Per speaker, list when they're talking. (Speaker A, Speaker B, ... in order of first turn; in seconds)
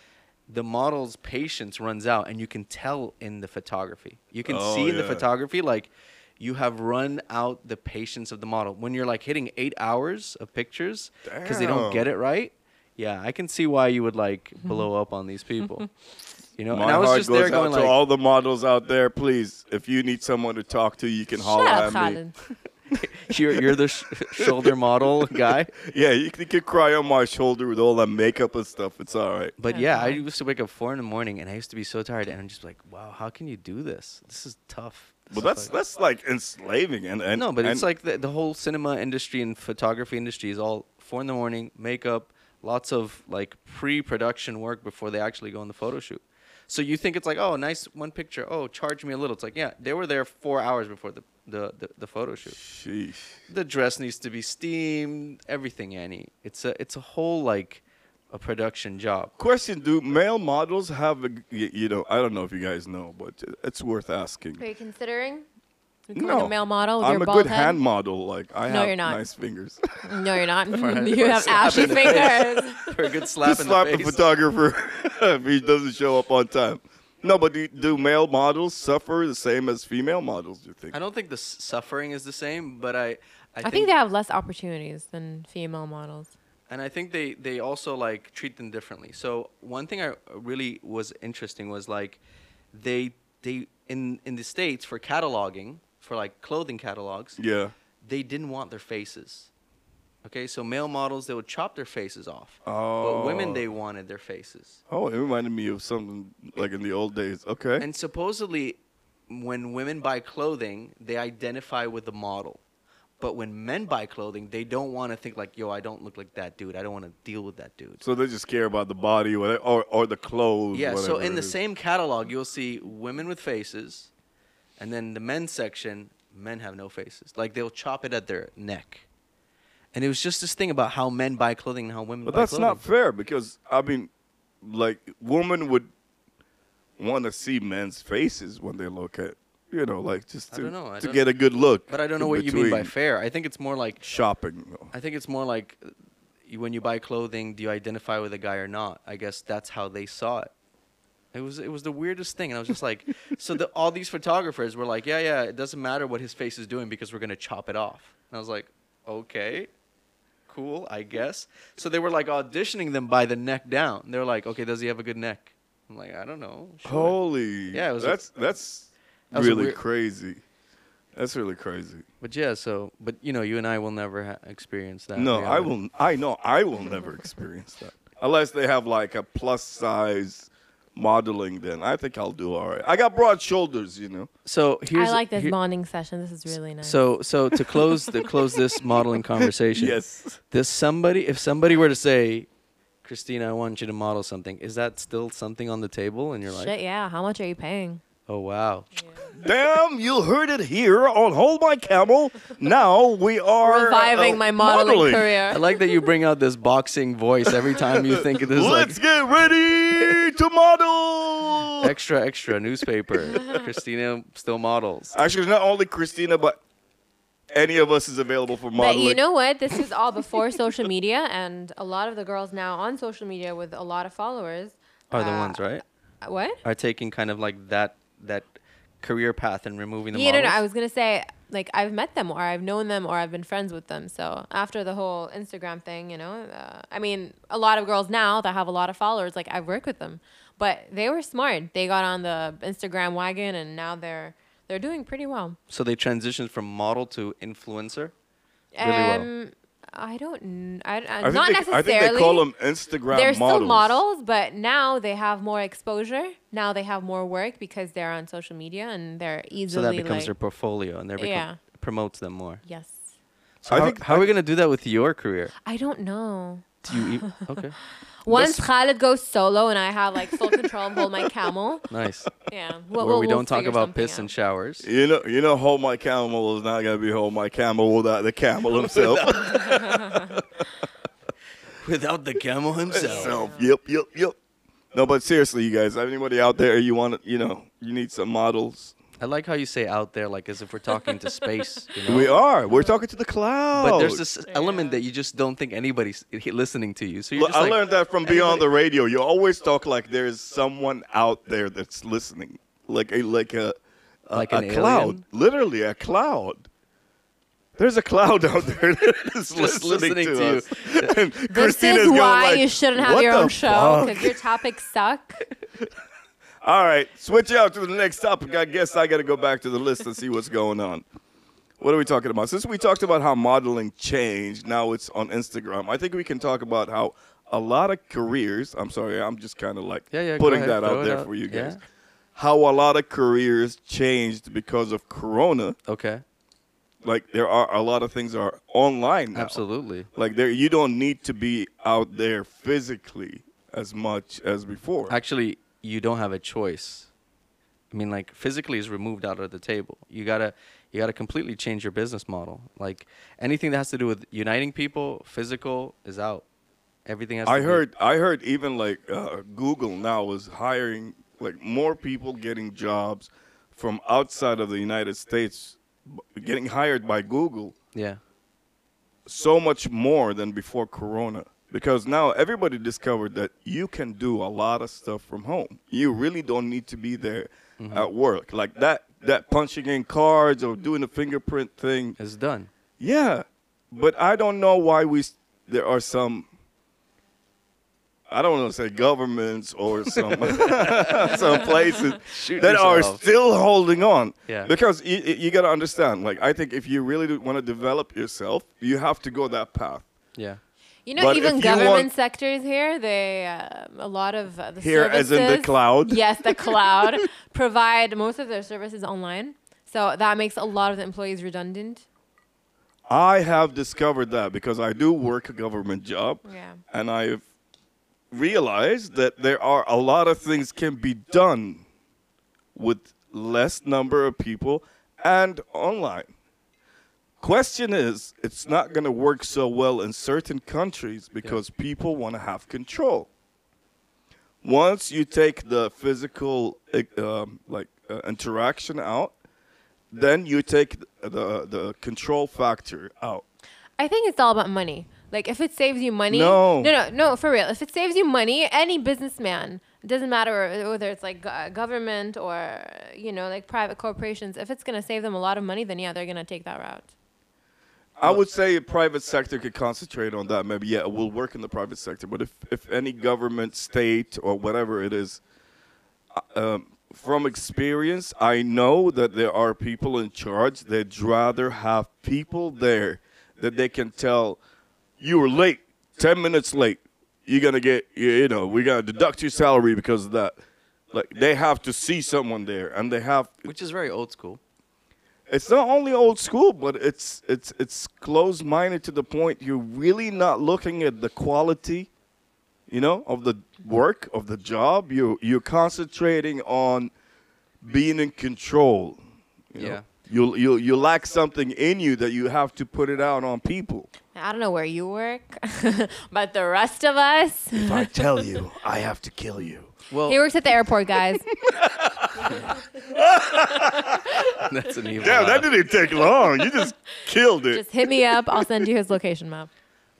Speaker A: 0.5-15.9, 16.6-17.9, 23.0-25.7, 29.6-35.7, 37.3-52.6, 53.5-59.3, 70.7-74.2, 80.9-83.9, 86.7-92.2, 92.7-97.4, 98.0-99.5, 100.2-104.8, 107.8-112.6, 113.2-118.0, 120.7-124.1, 124.8-129.1, 129.9-132.8, 140.5-141.2, 141.9-144.0, 144.9-145.9, 146.5-150.5, 151.3-159.7, 160.5-167.2, 167.7-168.2, 169.3-169.8, 172.2-175.7, 184.4-185.5, 186.8-190.0, 190.5-192.5, 193.0-196.7, 198.3-198.9, 205.5-209.0, 211.8-215.2, 225.1-225.8, 226.6-228.5, 229.0-230.6, 245.7-248.1, 248.8-249.3, 259.7-262.6, 263.6-265.5, 266.9-267.8, 271.9-272.3, 273.0-274.9, 278.7-280.3, 281.8-283.4, 289.2-292.3, 293.8-298.7, 304.3-305.2, 309.5-311.1, 330.1-331.8, 335.9-336.2, 339.3-340.1, 345.1-347.1, 347.9-356.4, 357.1-357.8, 367.9-368.2, 377.8-378.1, 382.2-382.7, 390.1-393.2, 394.5-394.7, 483.6-484.6, 499.8-500.0, 510.1-510.4, 514.4-515.7
Speaker B: 4.4-5.2, 11.2-12.1, 16.7-22.2, 24.4-24.7, 25.3-29.5, 35.3-37.9, 52.5-53.4, 59.4-64.6, 66.1-69.8, 71.6-72.4, 73.4-81.0, 97.4-97.7, 102.7-103.7, 104.9-107.8, 118.0-121.5, 132.2-134.1, 134.6-135.9, 137.0-142.9, 144.0-144.9, 166.8-170.4, 171.1-172.1, 175.1-184.3, 189.7-190.4, 199.3-205.3, 207.4-211.9, 215.1-216.6, 217.5-219.2, 251.2-254.0, 263.7-264.3, 268.3-268.6, 274.8-280.6, 282.9-284.4, 284.9-288.9, 292.1-294.2, 297.3-303.8, 304.3-306.7, 307.8-314.4, 316.6-321.0, 321.8-331.8, 332.4-335.8, 337.0-339.6, 340.1-345.2, 357.4-367.7, 369.2-382.2, 383.0-386.5, 388.3-400.1, 401.2-402.1, 404.8-407.2, 413.1-417.4, 418.3-421.8, 422.7-426.3, 427.4-433.3, 434.6-439.3, 440.1-443.4, 446.3-446.9, 458.2-465.4, 466.3-474.6, 475.2-480.5, 481.1-483.7, 485.5-492.1, 492.9-497.1, 497.8-499.2, 499.7-504.1, 507.8-509.9, 511.6-514.6, 515.2-518.9
Speaker C: 21.4-22.3, 29.7-30.2, 64.6-65.5, 66.1-67.8, 68.7-69.2, 70.0-73.0, 83.6-86.3, 184.9-187.0, 196.5-198.0, 203.6-205.6, 218.8-226.6, 230.1-245.6, 248.7-252.4, 253.1-260.3, 261.2-261.6, 262.6-263.0, 265.6-267.4, 268.2-271.8, 272.4-274.3, 283.0-283.6, 294.5-295.0, 311.5-315.4, 401.1-412.0, 416.4-416.8, 444.0-457.1, 504.3-508.1, 510.2-511.5, 513.6-514.6, 517.7-519.7